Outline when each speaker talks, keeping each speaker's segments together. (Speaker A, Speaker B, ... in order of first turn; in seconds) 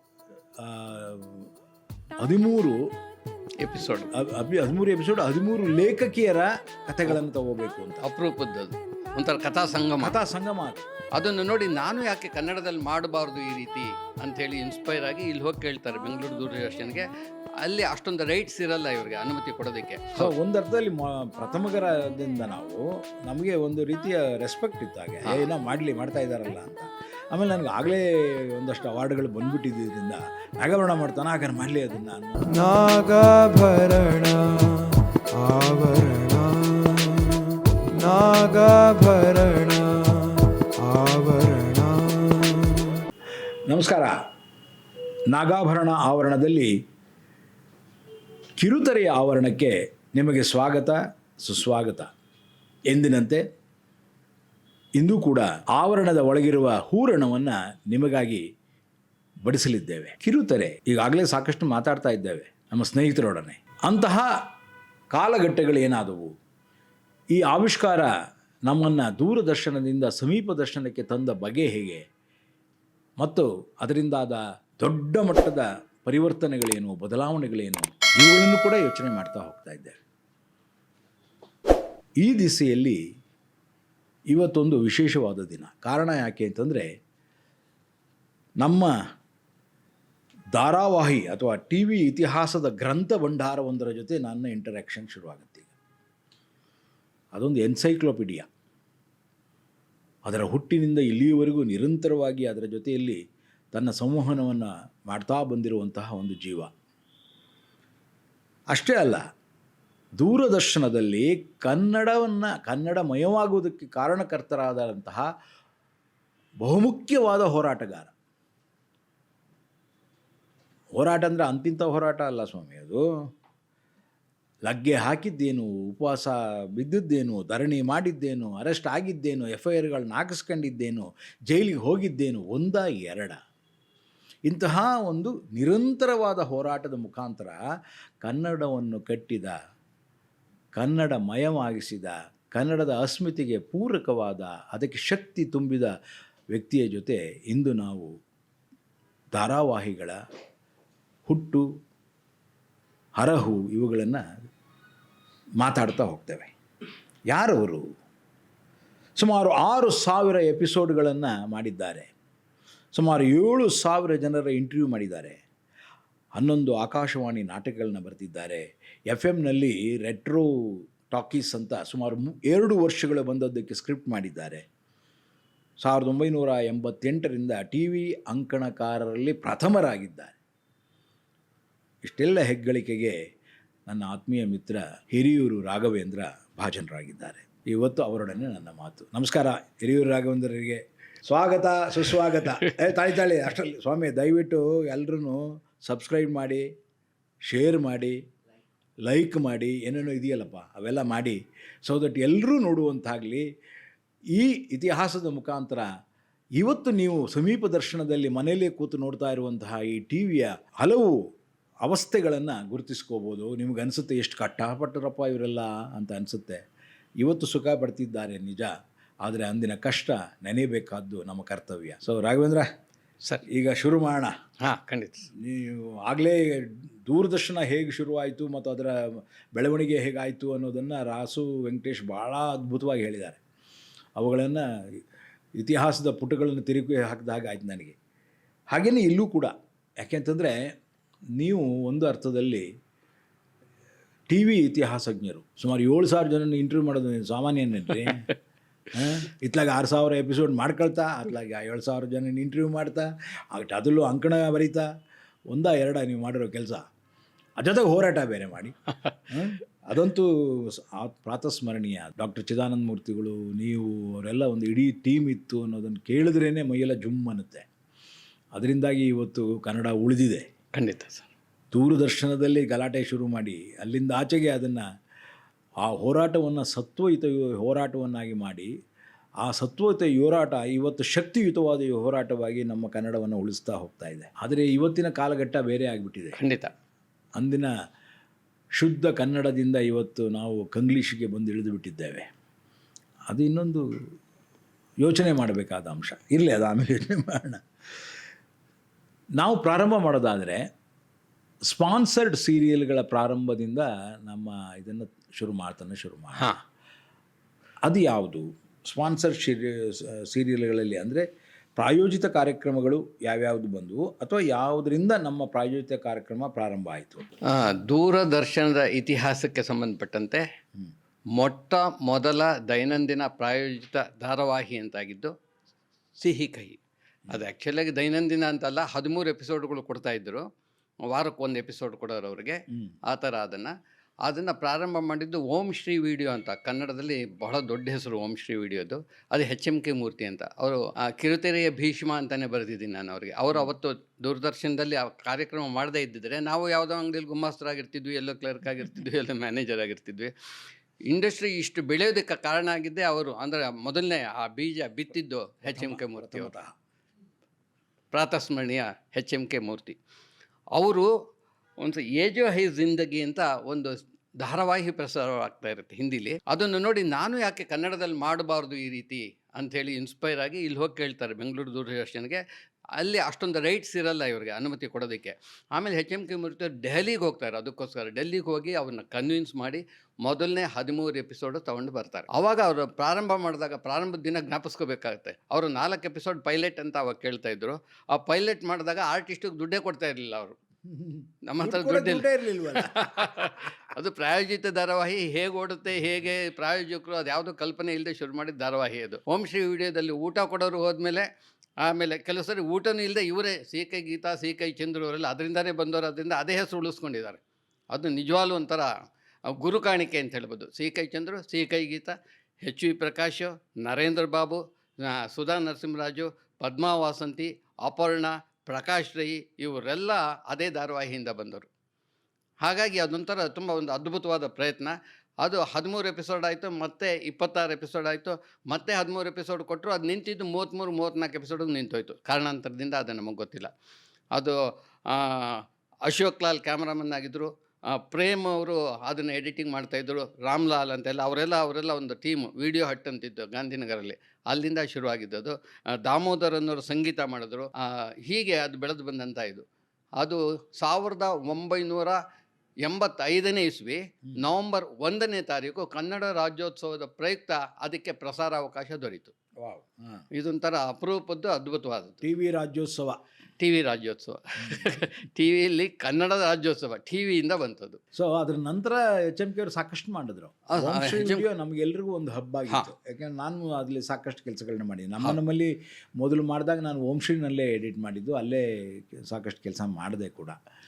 Speaker A: 0.6-1.4, 2.2-2.8, 4.1-8.0, 10.0-10.8, 20.2-32.4, 43.7-44.1, 45.3-46.7, 48.6-52.1, 52.9-53.4, 55.0-58.4, 59.4-64.2, 65.1-66.3, 67.3-68.1, 68.7-72.0, 73.2-80.0, 82.2-83.0, 84.3-86.9, 88.6-88.9, 90.5-95.7, 97.3-98.5, 100.2-103.2, 103.7-106.7, 108.7-109.2, 110.2-115.2, 116.6-118.1, 121.0-123.0, 124.7-133.4, 134.5-137.6, 138.2-139.5, 140.7-145.9, 146.5-148.1, 149.3-150.2, 151.2-151.7, 153.2-154.2, 155.6-156.5, 157.3-157.8, 159.2-162.1, 162.9-165.4, 166.3-174.6, 175.8-180.3, 182.0-183.2, 183.9-196.6, 197.5-198.2, 199.0-203.4, 204.3-205.9, 206.6-211.2, 211.8-216.6, 217.2-218.7, 219.2-222.7, 223.4-224.3, 225.4-233.4, 234.2-235.0, 235.6-237.9, 238.7-240.6, 241.3-242.7, 244.3-248.2, 248.9-254.9, 255.5-256.8, 257.6-258.8, 259.3-267.6, 268.5-270.5, 271.7-274.8, 275.8-278.7, 279.4-286.4, 287.4-287.7, 288.8-292.3, 293.3-293.8, 295.0-297.6, 299.4-300.6, 301.7-306.5, 307.8-311.2, 311.8-317.3, 355.7-356.7, 390.9-393.5, 459.6-460.2, 462.2-463.2, 464.6-464.9, 468.1-480.6
Speaker B: 3.6-4.1, 8.0-10.2, 11.1-17.1, 17.6-20.3, 224.6-225.3, 270.7-271.3, 286.4-286.7, 317.5-320.4, 321.4-325.3, 326.2-326.8, 327.3-330.4, 331.1-333.7, 334.2-350.3, 351.1-356.5, 358.1-359.9, 360.7-361.1, 361.8-372.4, 373.0-390.6, 391.5-401.2, 401.8-407.4, 407.9-408.9, 409.5-421.7, 422.6-433.7, 435.1-449.6, 450.2-452.2, 452.8-459.3, 460.4-462.2, 463.6-468.0, 470.7-471.4
Speaker C: 32.5-37.5, 38.0-42.9